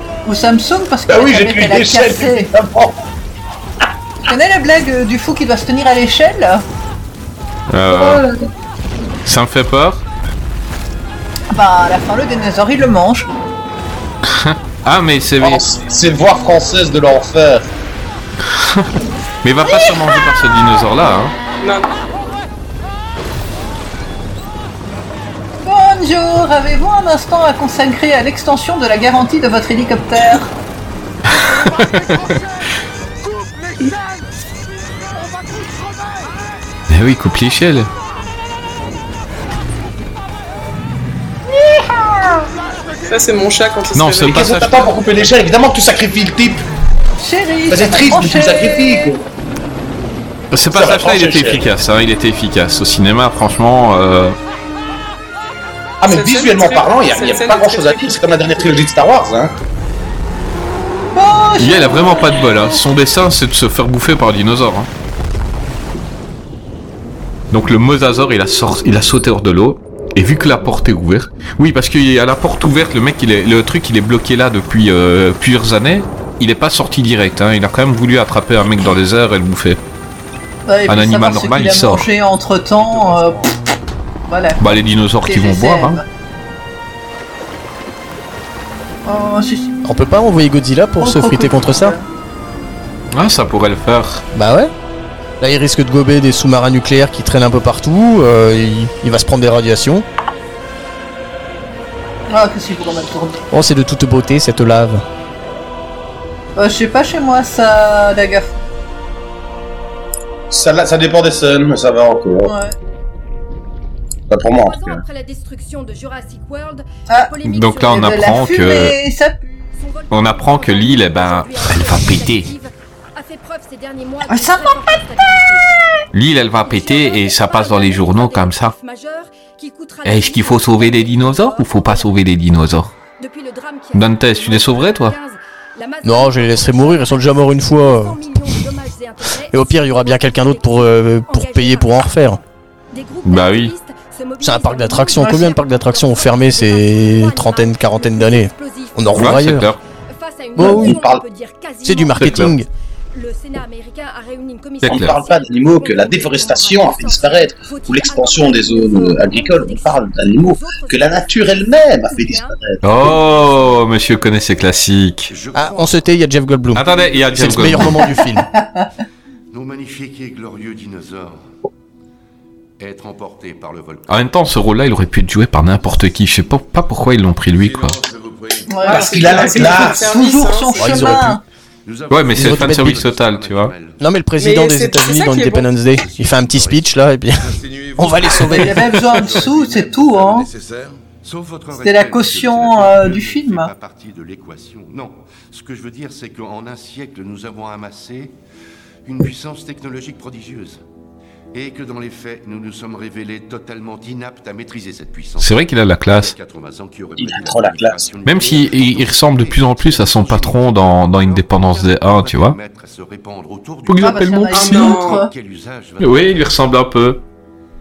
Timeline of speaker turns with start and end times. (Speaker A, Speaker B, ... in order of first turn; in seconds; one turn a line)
Speaker A: 0.3-2.5
Speaker B: 1.1-3.0
Speaker A: 4.3-6.6
Speaker C: 7.7-8.2
Speaker B: 7.9-8.4
Speaker C: 9.2-10.1
Speaker A: 11.5-13.3
Speaker C: 14.3-15.6
Speaker B: 15.4-17.7
Speaker C: 18.6-18.9
Speaker C: 19.4-21.4
Speaker D: 21.6-22.0
Speaker A: 25.6-30.5
Speaker C: 31.3-32.4
Speaker C: 36.9-37.9
Speaker D: 43.1-44.5
Speaker C: 43.9-45.0
Speaker B: 44.3-46.6
Speaker A: 47.2-49.1
Speaker B: 47.7-49.2
Speaker C: 50.5-54.4
Speaker B: 50.7-51.6
Speaker B: 56.0-59.5
Speaker D: 56.1-58.2
Speaker A: 61.1-62.8
Speaker C: 61.6-64.9
Speaker C: 67.5-79.8
Speaker A: 80.7-83.5
Speaker C: 80.9-82.0
Speaker A: 84.3-86.0
Speaker C: 84.6-86.0
Speaker A: 89.1-89.8
Speaker E: 89.8-92.0
Speaker A: 91.0-92.0
Speaker C: 93.1-94.2
Speaker E: 94.3-94.7
Speaker E: 95.4-100.0
Speaker A: 102.3-103.4
Speaker E: 103.5-105.0
Speaker A: 106.6-108.6
Speaker B: 110.5-112.5
Speaker A: 112.5-112.7
Speaker B: 114.3-115.0
Speaker F: 114.5-118.2
Speaker C: 117.5-119.0
Speaker A: 117.8-119.6
Speaker F: 119.8-125.7
Speaker C: 120.1-122.5
Speaker A: 124.3-125.0
Speaker C: 126.1-128.7
Speaker F: 126.6-132.1
Speaker C: 130.1-132.9
Speaker F: 133.2-152.6
Speaker C: 133.9-135.2
Speaker E: 136.0-138.2
Speaker E: 139.5-142.4
Speaker C: 143.2-143.7
Speaker E: 144.4-149.7
Speaker C: 149.2-149.8
Speaker E: 150.6-151.0
Speaker B: 150.6-151.2
Speaker E: 151.8-152.7
Speaker C: 152.2-152.6
Speaker F: 153.1-163.7
Speaker C: 154.8-155.1
Speaker B: 154.8-163.1
Speaker C: 162.8-165.3
Speaker G: 165.3-166.1
Speaker E: 165.5-168.5
Speaker C: 166.7-168.1
Speaker G: 166.8-168.1
Speaker A: 168.4-168.9
Speaker G: 169.5-171.4
Speaker G: 172.8-174.3
Speaker C: 174.1-178.0
Speaker G: 177.6-179.8
Speaker A: 178.7-181.4
Speaker D: 178.8-181.1
Speaker B: 178.9-180.1
Speaker E: 180.8-181.4
Speaker G: 181.9-184.0
Speaker C: 182.1-183.7
Speaker E: 182.3-183.0
Speaker E: 184.0-189.3
Speaker D: 184.4-185.8
Speaker G: 185.8-198.3
Speaker A: 188.5-190.5
Speaker A: 191.8-193.7
Speaker G: 199.1-200.8
Speaker G: 201.5-216.6
Speaker C: 205.4-206.3
Speaker B: 207.2-208.1
Speaker C: 208.2-212.6
Speaker C: 213.9-215.0
Speaker A: 214.0-215.3
Speaker D: 214.5-215.3
Speaker C: 216.0-217.2